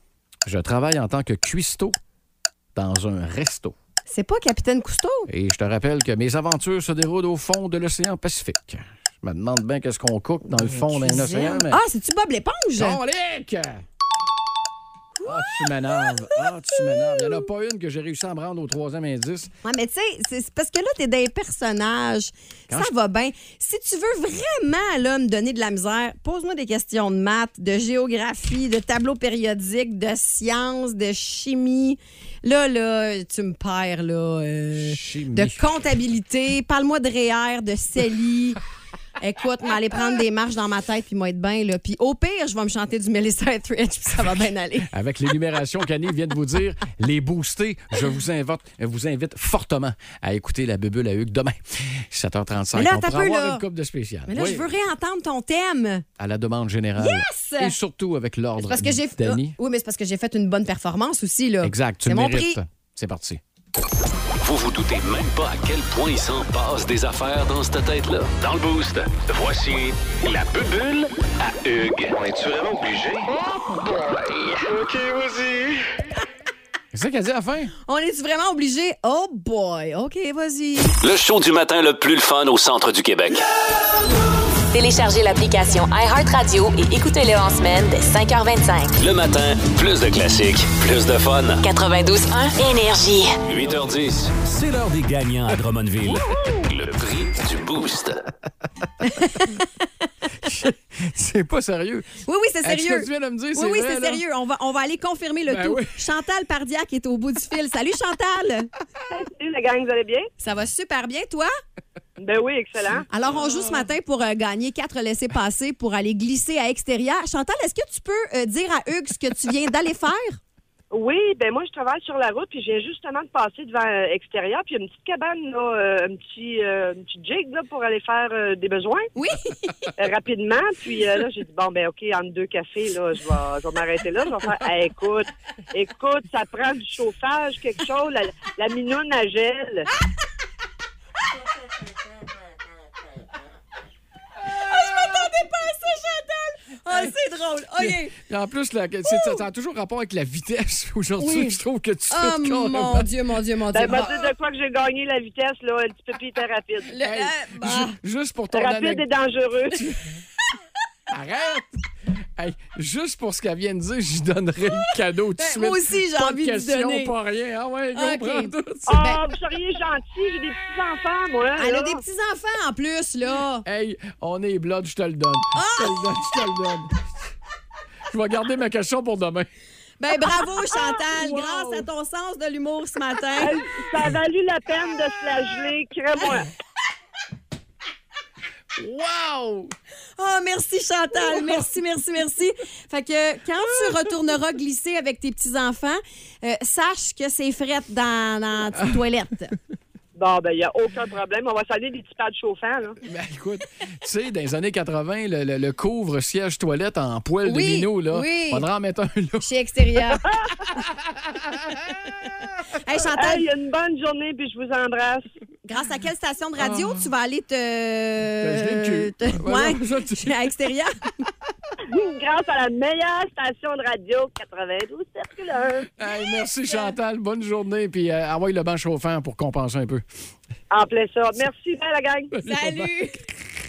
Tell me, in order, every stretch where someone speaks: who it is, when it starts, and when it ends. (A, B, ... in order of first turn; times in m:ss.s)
0:00.4-0:02.0 A
0:02.7-0:03.7 A
0:04.1-0:05.3 B
0:05.3-0:11.8 A
0:10.5-0:13.0 B
0:12.8-0:13.8 A
0:15.2-0:17.4 B
0:15.2-0:19.5 A
0:19.6-0:38.6 B
0:34.8-0:35.6 A
0:39.2-0:44.9 B
0:44.9-0:54.7 A
0:52.7-0:53.6 B
0:54.3-0:56.0 B
0:56.2-0:59.6 A
0:57.0-0:57.7 B
0:58.6-1:02.6 B
1:01.6-1:03.4 A
1:04.4-1:13.4 C
1:13.9-1:15.8 C
1:16.9-1:17.7 A
1:17.8-1:21.0 B
1:21.0-1:23.5 C
1:24.7-1:29.0 D
1:29.0-1:31.6 C
1:31.6-1:33.4 D
1:33.4-1:38.3 C
1:39.0-1:39.7 B
1:40.4-1:44.2 A
1:42.2-1:48.7 B
1:45.5-1:46.0 A
1:49.1-1:50.3 E
1:50.4-1:51.5 B
1:52.2-1:53.1 E
1:53.1-2:00.4 B
2:00.9-2:09.1 E
2:09.2-2:09.9 B
2:10.0-2:19.9 E
2:24.4-2:28.1 B
2:27.8-2:33.1 A
2:29.1-2:29.4 B
2:31.2-2:31.6 B
2:32.1-2:34.3 B
2:33.7-2:36.9 E
2:36.9-2:37.9 B
2:37.0-2:39.0 A
2:38.5-2:40.0 E
2:41.1-2:41.8 A
2:42.4-2:49.2 A
2:45.4-2:47.1 B
2:47.9-2:49.2 B
2:48.9-2:52.0 E
2:51.6-2:53.6 B
2:53.6-2:57.0 A
2:55.5-2:56.1 B
2:58.1-2:59.5 A
3:00.0-3:03.6 B
3:00.9-3:01.9 A
3:03.4-3:06.5 E
3:08.7-3:09.7 A
3:10.2-3:19.6 B
3:11.3-3:11.6 A
3:13.6-3:14.0 A
3:20.2-3:23.0 E
3:23.0-3:29.5 A
3:27.4-3:28.6 B
3:29.4-3:30.2 B
3:30.3-3:30.5 E
3:30.8-3:31.7 A
3:32.8-3:33.5 B
3:33.2-3:35.2 E
3:35.6-3:41.0 B
3:36.6-3:37.1 A
3:38.4-3:40.4 A
3:41.9-3:45.9 E
3:46.0-3:50.0 A
3:50.7-3:52.3 E
3:52.3-3:53.0 A
3:52.4-3:53.2 B